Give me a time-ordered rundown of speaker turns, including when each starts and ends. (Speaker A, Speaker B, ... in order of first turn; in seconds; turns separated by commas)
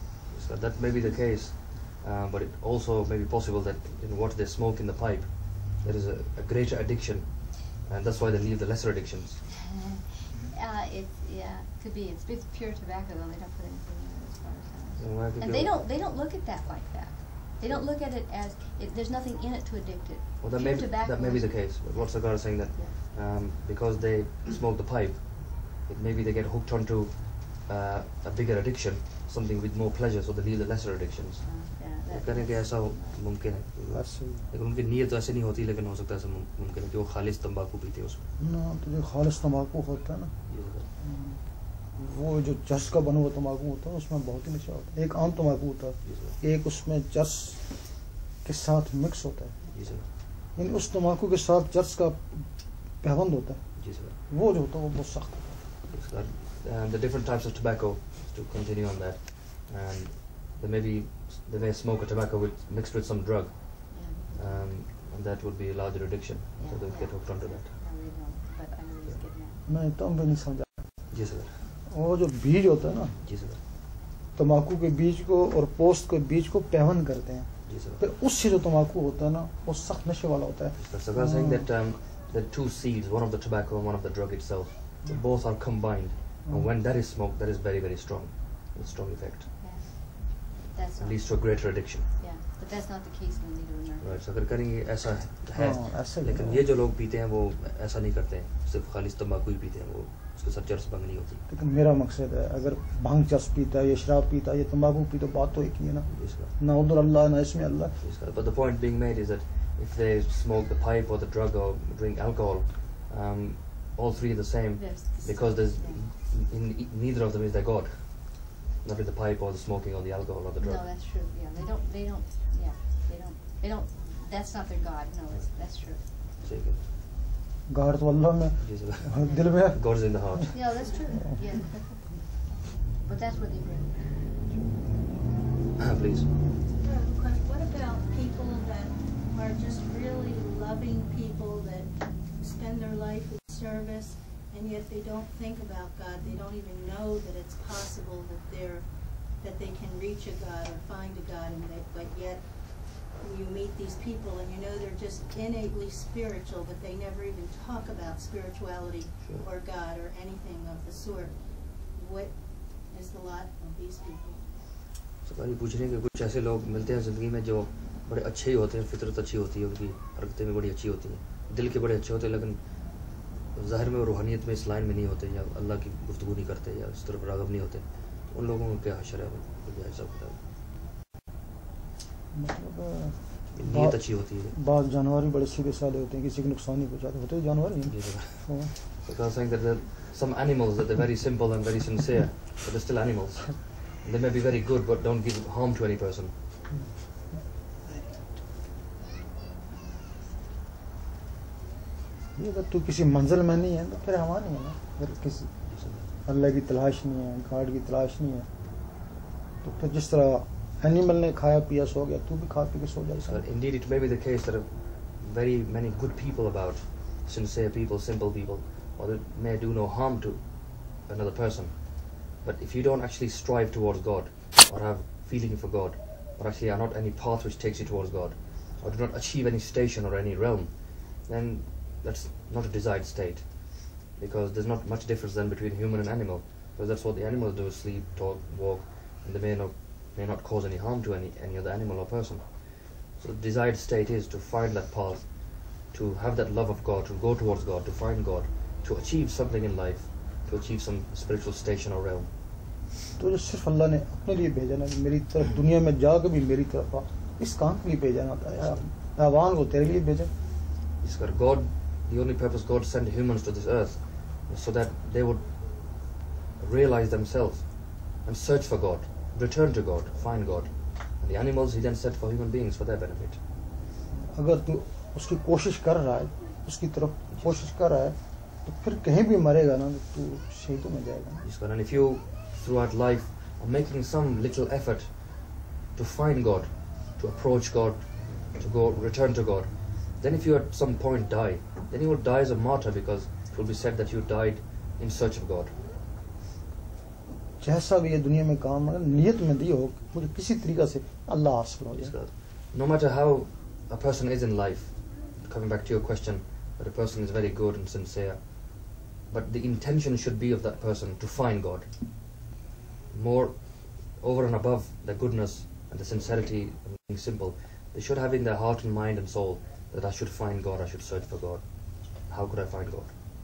Speaker A: 0.3-9.4, Speaker B: 9.5-23.0, Speaker A: 15.0-15.8, Speaker A: 20.4-38.2, Speaker B: 31.4-33.5, Speaker C: 33.9-34.5, Speaker C: 38.4-40.4, Speaker A: 40.5-40.9, Speaker C: 41.0-55.6, Speaker A: 46.0-46.4, Speaker A: 49.7-50.1, Speaker A: 53.8-54.1, Speaker A: 55.9-67.7, Speaker B: 63.9-64.8, Speaker B: 66.6-69.7, Speaker C: 69.7-71.0, Speaker A: 71.1-71.7, Speaker C: 71.9-73.2, Speaker A: 73.2-73.6, Speaker C: 74.3-81.7, Speaker A: 77.7-78.1, Speaker A: 80.8-89.5, Speaker B: 89.6-94.3, Speaker A: 91.0-92.1, Speaker A: 94.0-101.4, Speaker C: 95.5-96.7, Speaker C: 101.5-108.0, Speaker A: 106.1-106.5, Speaker A: 108.0-120.9, Speaker B: 114.7-116.1, Speaker B: 120.6-126.2, Speaker A: 125.9-126.9, Speaker C: 127.7-130.5, Speaker A: 128.6-130.8, Speaker B: 129.2-129.6, Speaker B: 130.5-132.3, Speaker B: 132.9-134.3, Speaker A: 135.8-136.3, Speaker D: 136.8-164.5, Speaker A: 159.2-159.5, Speaker A: 165.2-180.4, Speaker C: 182.3-188.7, Speaker A: 183.5-184.6, Speaker A: 187.8-196.3, Speaker C: 196.7-197.1, Speaker C: 202.4-208.5, Speaker A: 205.7-206.1, Speaker C: 209.6-213.4, Speaker A: 213.2-252.3, Speaker C: 253.2-260.3, Speaker A: 258.6-258.9, Speaker A: 261.0-273.4, Speaker C: 274.1-281.5, Speaker A: 277.3-277.7, Speaker A: 281.4-295.8, Speaker C: 297.6-302.2, Speaker A: 301.9-312.4, Speaker A: 313.1-323.2